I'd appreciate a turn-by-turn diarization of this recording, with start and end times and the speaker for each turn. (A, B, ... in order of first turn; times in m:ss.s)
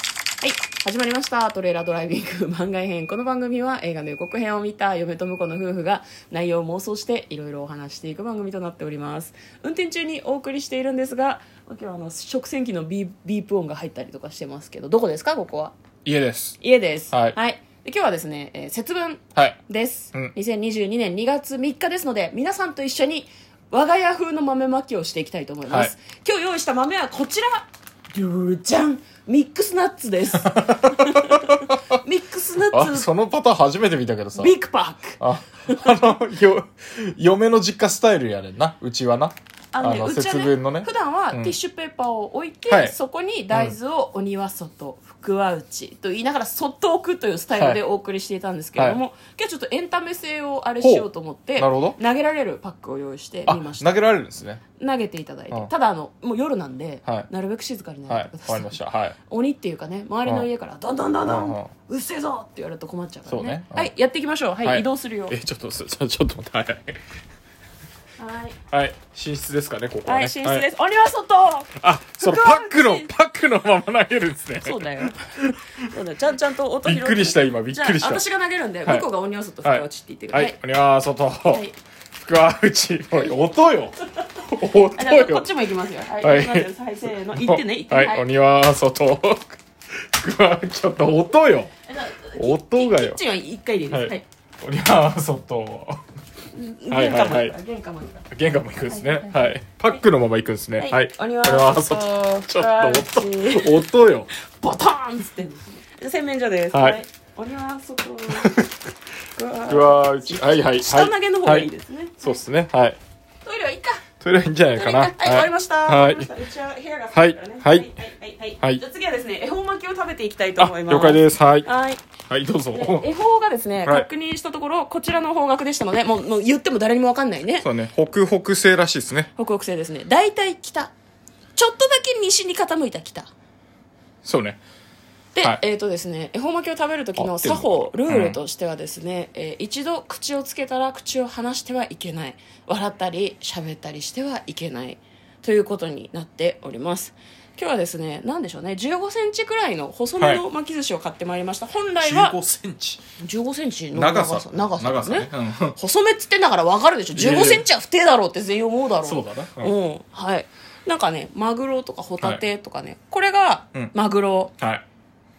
0:00.4-0:15.7 A
0:16.0-0:16.6 B
0:16.6-0:33.1 A
0:25.7-0:25.9 B
0:30.4-0:32.0 B
0:32.7-0:34.5 B
0:34.4-0:35.8 A
0:35.2-0:41.6 B
0:39.7-0:54.0 A
0:42.7-0:43.0 B
0:51.6-0:52.0 B
0:53.5-0:54.6 B
0:54.7-1:05.4 A
0:58.1-0:59.2 B
1:01.2-1:01.7 B
1:03.3-1:03.9 B
1:04.6-1:07.0 B
1:08.2-1:08.6 A
1:08.7-1:10.7 B
1:10.1-1:13.1 A
1:11.8-1:15.9 B
1:14.6-1:15.3 A
1:15.8-1:20.6 A
1:16.8-1:18.2 B
1:19.6-1:21.6 B
1:21.5-1:21.8 A
1:22.2-1:25.5 B
1:24.9-1:28.3 A
1:26.2-1:26.7 B
1:27.3-1:29.6 B
1:30.1-1:31.7 B
1:31.9-1:34.3 A
1:32.4-1:33.2 B
1:33.9-1:36.0 B
1:36.5-1:38.3 A
1:36.9-1:37.6 B
1:38.3-1:44.3 B
1:38.9-1:39.5 A
1:40.8-1:48.6 A
1:46.7-1:47.0 B
1:48.3-1:48.7 B
1:49.3-1:52.4 A
1:49.7-1:51.7 B
1:52.2-1:53.0 B
1:53.4-1:54.0 A
1:54.2-1:56.3 B
1:54.7-2:02.0 A
1:57.1-1:57.9 B
2:00.6-2:01.7 B
2:02.3-2:03.1 B
2:02.7-2:07.7 A
2:07.6-2:09.3 B
2:09.4-2:10.9 A
2:11.6-2:13.3 A
2:14.2-2:14.6 B
2:15.4-2:32.4 A
2:17.2-2:18.4 B
2:32.0-2:33.0 B
2:33.2-2:44.5 A
2:33.9-2:35.8 B
2:37.1-2:37.7 B
2:39.0-2:39.8 B
2:44.6-2:44.8 B